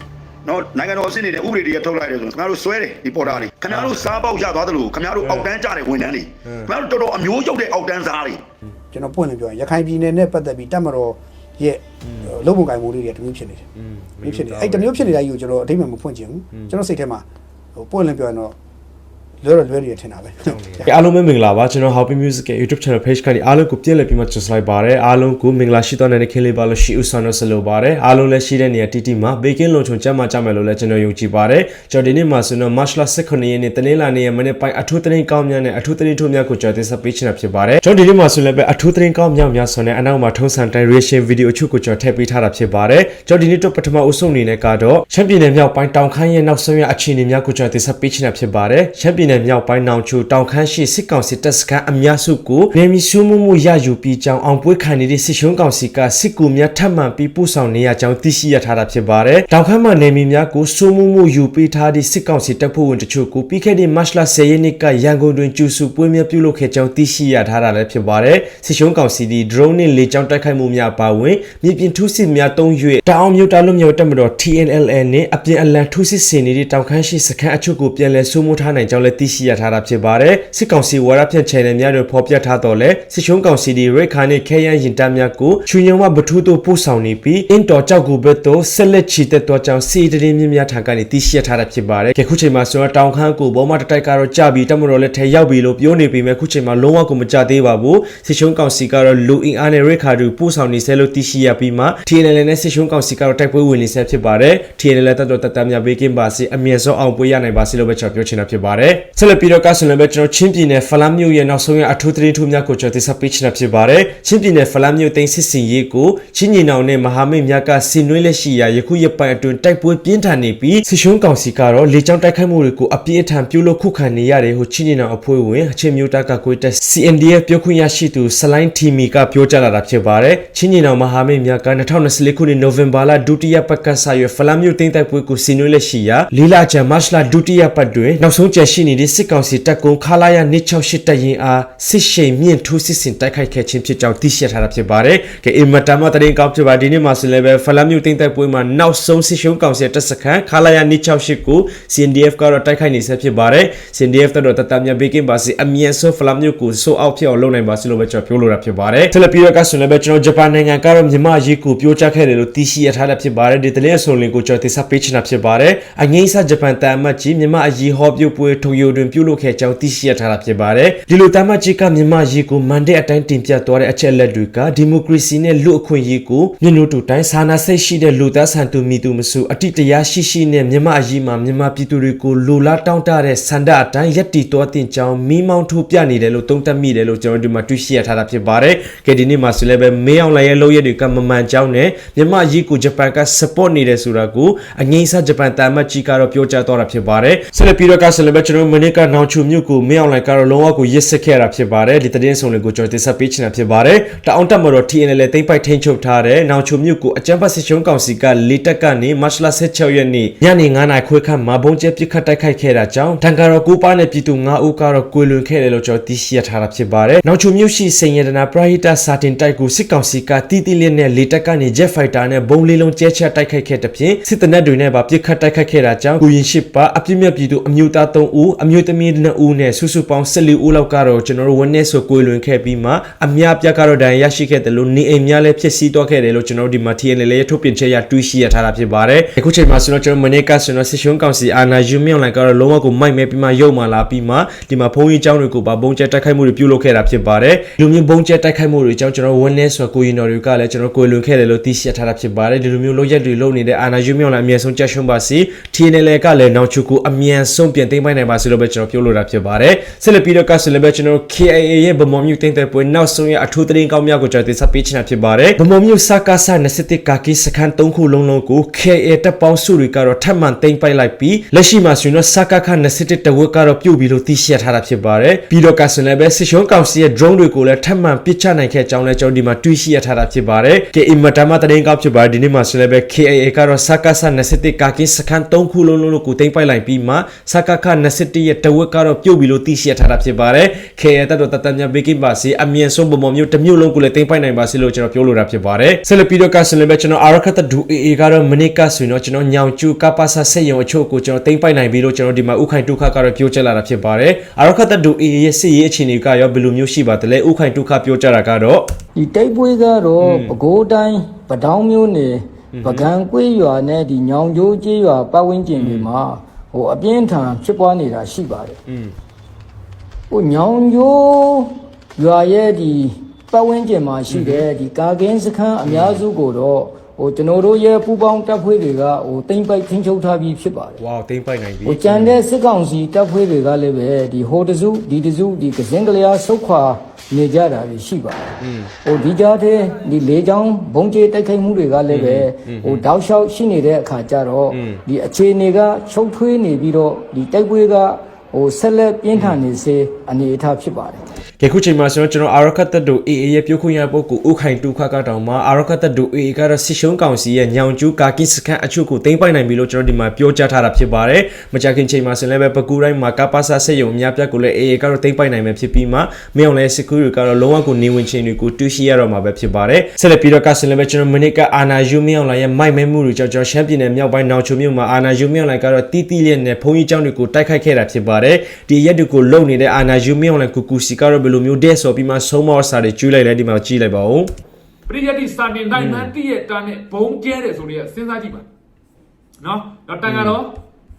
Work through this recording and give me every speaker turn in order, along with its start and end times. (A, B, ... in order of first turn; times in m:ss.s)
0:00.4-0:08.4 A
0:03.2-0:04.2 B
0:05.2-0:05.5 B
0:06.4-0:06.7 B
0:08.9-0:13.6 C
0:12.0-0:12.3 B
0:13.8-0:15.2 B
0:14.2-0:17.2 C
0:17.8-0:18.5 C
0:19.4-0:20.9 C
0:20.4-5:08.9 B
5:09.2-5:18.8 D
5:10.2-5:10.6 B
5:12.7-5:13.1 B
5:15.7-5:16.1 B
5:18.9-5:19.1 B
5:20.3-5:31.0 D
5:24.3-5:24.7 B
5:25.8-5:26.2 B
5:31.0-5:32.4 B
5:31.8-5:51.2 D
5:38.6-5:38.9 B
5:42.1-5:43.1 B
5:44.7-5:45.0 B
5:49.3-5:49.6 B
5:51.6-6:24.5 B
6:25.1-6:28.7 E
6:25.9-6:26.3 B
6:29.6-6:30.8 E
6:30.2-6:30.6 B